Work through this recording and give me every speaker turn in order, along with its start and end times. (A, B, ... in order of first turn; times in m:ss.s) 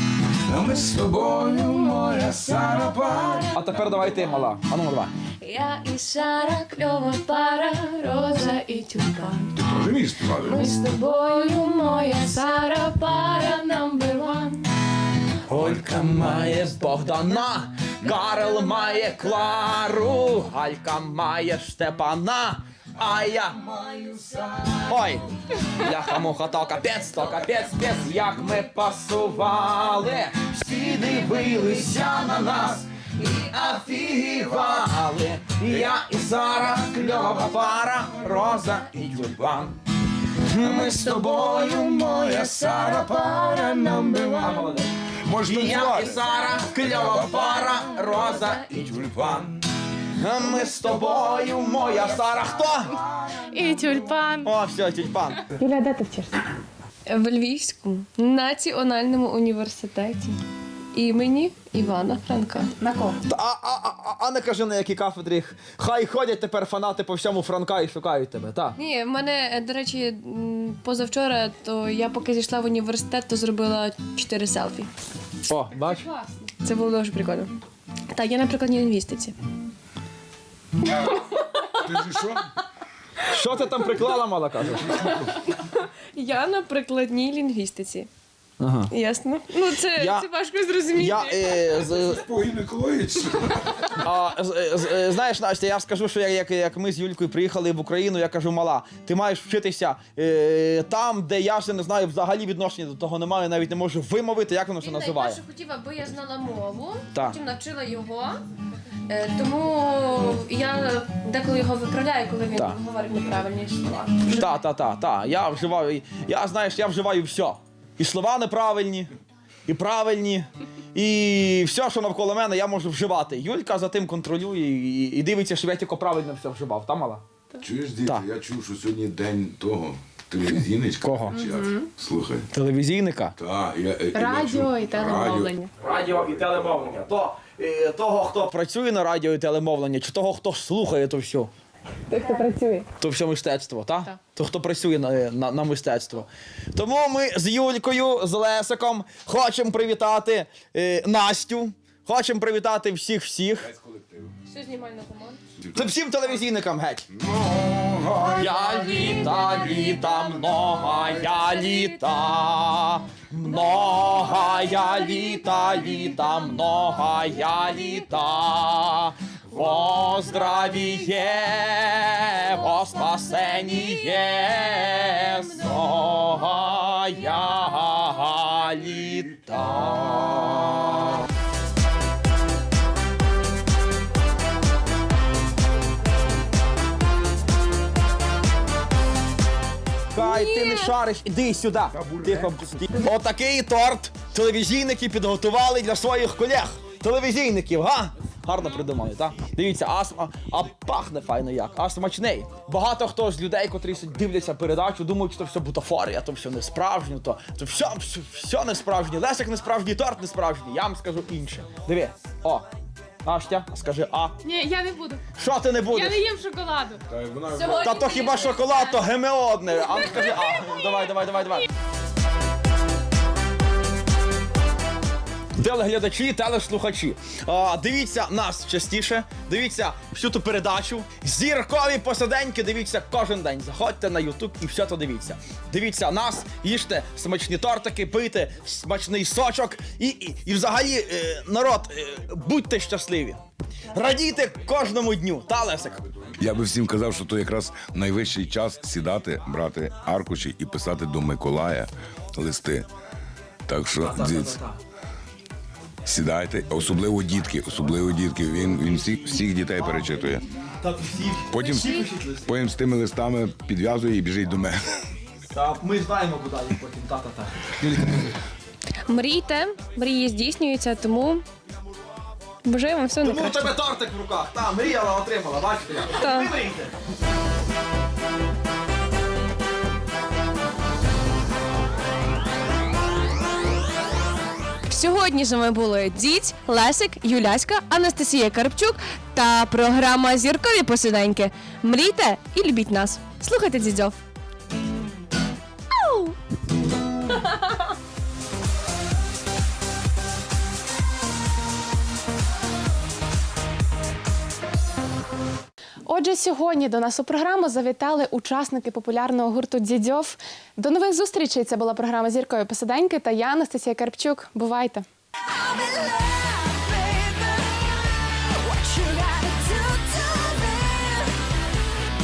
0:00.5-0:03.5 A
0:02.6-0:04.3 B
0:03.5-0:05.1 C
0:05.4-0:09.5 B
0:09.6-0:10.7 A
0:10.4-0:14.7 B
0:15.4-0:23.7 C
0:18.1-0:18.7 B
0:23.7-0:25.1 A
0:24.9-0:39.8 C
0:40.4-0:41.1 C
0:40.6-0:44.5 A
0:40.6-0:44.8 B
0:44.4-0:49.5 C
0:45.2-0:46.2 A
0:46.7-0:47.5 A
0:47.2-0:48.9 B
0:48.8-0:49.5 A
0:50.1-0:53.0 C
0:53.4-0:54.5 D
0:54.4-0:55.5 C
0:55.5-0:56.4 D
0:57.0-1:00.4 B
1:00.9-1:02.7 B
1:02.8-1:03.2 D
1:03.2-1:08.8 C
1:08.8-1:14.9 B
1:15.4-1:16.1 C
1:16.5-1:17.5 B
1:18.1-1:19.4 B
1:20.9-1:21.4 B
1:21.8-1:22.5 A
1:23.2-1:25.0 C
1:25.0-1:28.1 B
1:28.6-1:28.9 C
1:28.9-1:31.7 B
1:29.9-1:30.2 C
1:30.9-1:32.2 C
1:31.8-1:34.0 A
1:34.0-1:45.4 C
1:44.8-1:48.4 B
1:49.1-1:54.6 B
1:54.3-1:59.1 C
1:59.7-2:07.2 C
2:07.6-2:12.5 A
2:11.0-2:11.4 C
2:11.5-2:11.8 D
2:12.5-2:13.4 C
2:13.4-2:15.5 A
2:14.1-2:15.7 D
2:15.8-2:21.5 C
2:22.1-2:22.9 D
2:23.0-2:33.7 C
2:33.7-2:34.3 A
2:34.5-2:35.4 B
2:35.7-2:37.1 C
2:37.2-2:38.5 A
2:38.4-3:01.0 C
2:38.5-2:42.3 B
2:43.5-2:45.0 B
2:52.5-2:54.2 B
2:55.1-2:55.5 B
3:10.1-3:32.7 C
3:10.2-3:11.0 B
3:11.9-3:12.5 A
3:33.2-3:34.4 C
3:34.4-3:35.2 D
3:35.4-3:36.3 C
3:35.9-3:37.0 D
3:37.1-3:38.1 A
3:37.5-3:39.0 B
3:37.8-3:41.7 C
3:45.6-4:03.4 C
4:03.9-4:06.0 C
4:06.4-4:12.9 A
4:13.7-4:14.6 A
4:14.0-4:14.8 C
4:16.0-4:20.4 A
4:18.5-4:22.6 C
4:21.5-4:24.9 A
4:21.6-4:22.1 B
4:25.5-4:28.2 C
4:28.0-4:28.2 A
4:29.1-4:31.4 B
4:32.6-4:33.7 B
4:33.2-4:36.9 C
4:36.1-4:36.5 B
4:44.8-4:54.2 B
4:55.9-4:56.4 B
5:06.1-5:15.0 D
5:15.7-5:21.3 B